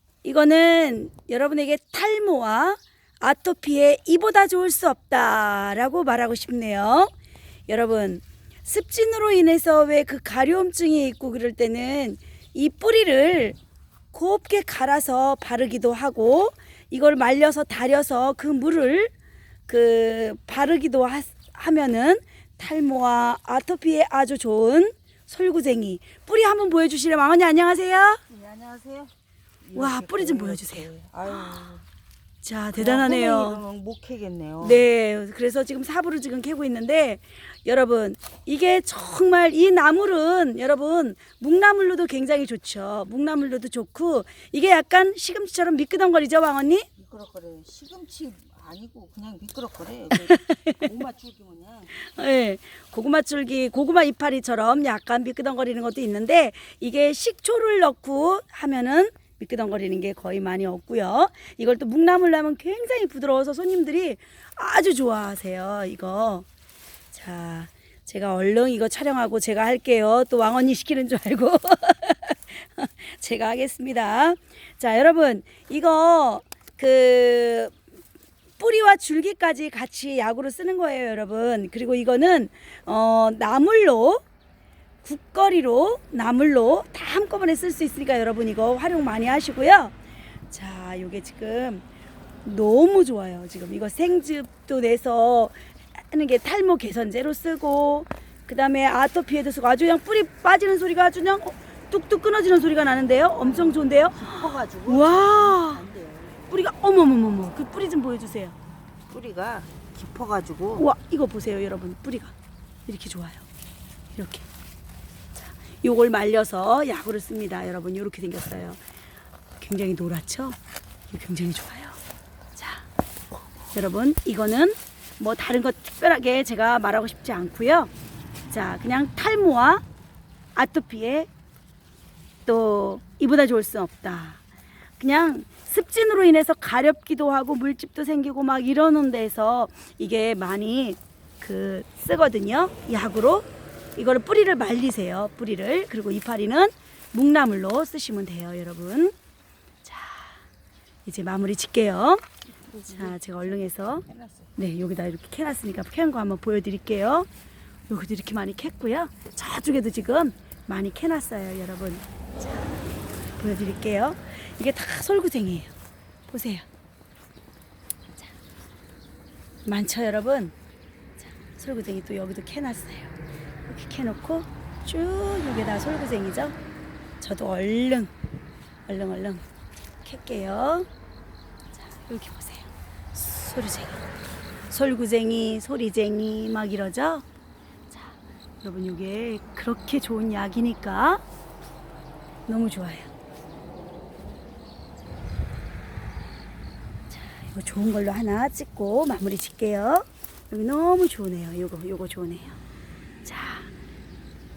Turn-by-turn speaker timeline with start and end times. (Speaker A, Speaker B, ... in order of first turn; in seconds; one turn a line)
Speaker A: 0.2-7.1
Speaker A: 7.7-13.6
Speaker A: 14.1-19.1
Speaker A: 19.7-28.2
Speaker B: 28.3-31.8
Speaker A: 29.8-31.6
Speaker A: 32.4-33.6
Speaker B: 32.8-34.8
Speaker A: 34.6-46.9
Speaker B: 47.0-52.0
Speaker A: 50.1-50.9
Speaker A: 52.0-66.5
Speaker A: 67.1-77.8
Speaker A: 78.6-84.2
Speaker A: 85.0-89.9
Speaker A: 90.5-91.8
Speaker A: 92.4-105.8
Speaker B: 103.4-106.5
Speaker A: 106.5-108.6
Speaker B: 109.1-110.9
Speaker A: 110.8-112.3
Speaker A: 112.9-113.5
Speaker A: 114.1-114.5
Speaker A: 115.4-118.8
Speaker A: 119.6-120.6
Speaker A: 121.1-122.0
Speaker A: 122.6-122.8
Speaker A: 123.7-127.9
Speaker A: 128.5-129.8
Speaker A: 130.5-131.3
Speaker A: 132.5-134.4
Speaker A: 135.0-149.1
Speaker A: 149.8-150.4
Speaker A: 151.0-152.2
Speaker B: 152.7-154.6
Speaker A: 152.8-154.0
Speaker A: 154.6-157.3
Speaker A: 157.9-162.8
Speaker A: 163.4-165.7
Speaker A: 166.3-166.7
Speaker A: 169.7-170.5
Speaker A: 171.2-173.1
Speaker A: 173.7-176.6
Speaker A: 177.2-178.1
Speaker A: 178.9-179.4
Speaker A: 180.0-180.9
Speaker A: 181.8-184.0
Speaker A: 184.7-187.2
Speaker A: 187.9-191.2
Speaker A: 192.5-193.1
Speaker A: 197.1-202.6
Speaker A: 203.2-203.7